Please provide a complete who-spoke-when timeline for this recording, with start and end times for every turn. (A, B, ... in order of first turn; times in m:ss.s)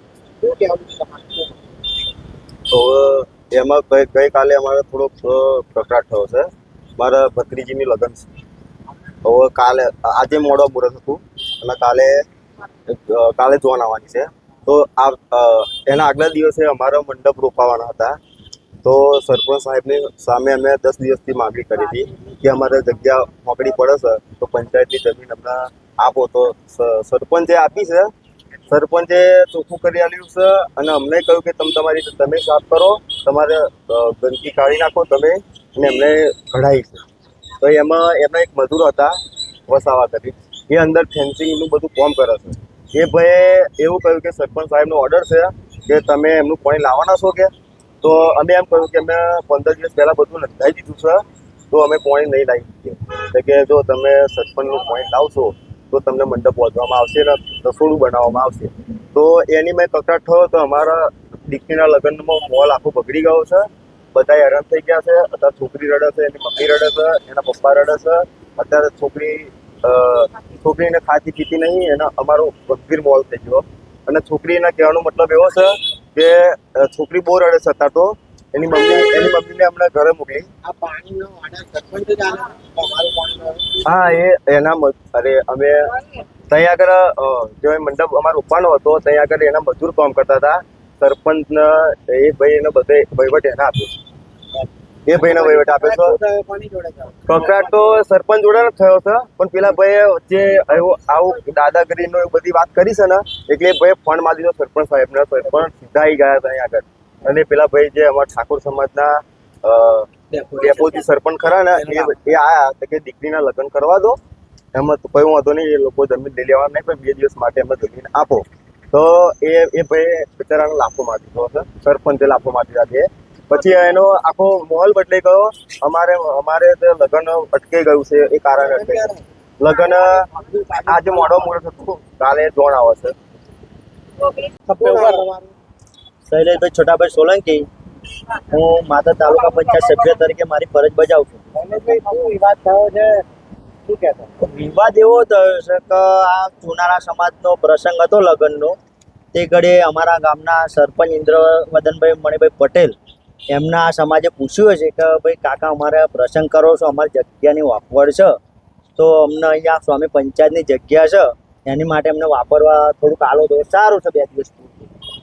0:00.4-0:01.6 A
0:02.7-0:08.3 B
0:09.2-0:12.3 B
0:12.9-0:18.2 B
0:18.8-0:28.1 B
0:28.7-0:37.0 B
0:37.6-0:39.2 B
0:39.7-1:20.5 B
1:20.6-1:23.8 A
1:23.8-1:26.0 B
1:26.5-1:33.9 B
1:34.6-1:38.0 A
1:35.1-1:36.2 B
1:37.3-1:54.2 B
1:50.4-1:50.7 A
1:51.9-1:52.2 A
1:54.7-2:09.1 B
2:08.6-2:09.2 A
2:09.6-2:10.3 B
2:10.3-2:11.5 A
2:10.8-2:13.2 B
2:14.7-2:15.5 A
2:16.3-2:17.6 C
2:18.4-2:21.4 C
2:21.6-2:23.2 A
2:23.8-2:24.3 A
2:24.4-2:28.8 C
2:29.3-2:33.0 C
2:33.5-2:38.3 C
2:39.0-2:44.9 C